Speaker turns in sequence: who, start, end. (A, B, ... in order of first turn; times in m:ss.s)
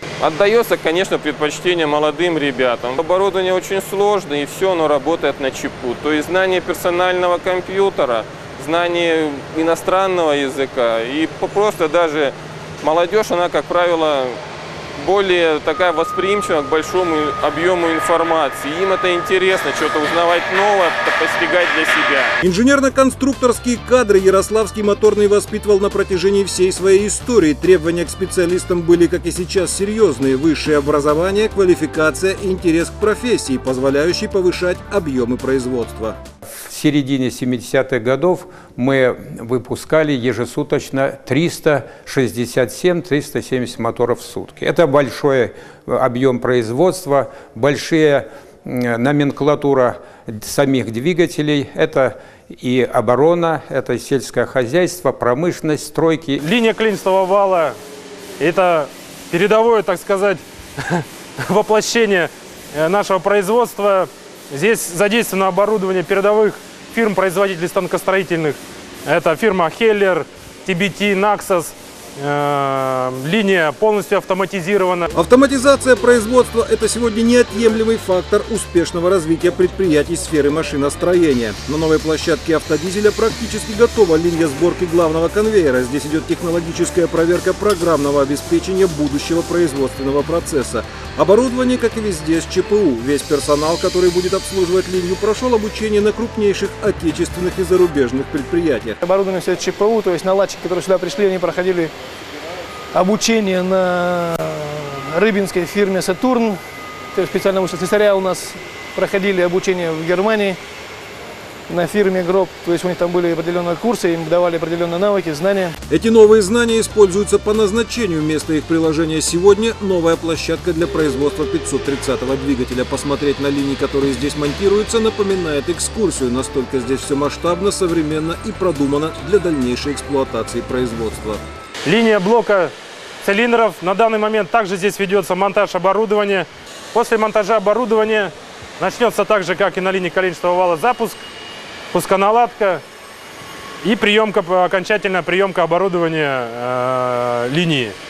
0:00.2-0:14.4 A
0:15.0-0:22.3 A
0:22.4-0:36.2 B
0:36.6-0:56.4 C
0:56.4-0:57.7 D
0:58.4-1:15.1 D
1:15.1-1:39.0 B
1:39.0-1:41.9 E
1:42.9-1:46.6 E
1:47.1-1:50.6 E
1:51.7-1:55.8 E
1:55.9-2:11.4 B
2:11.8-2:21.2 D
2:21.9-2:22.8 D
2:23.8-2:28.0 D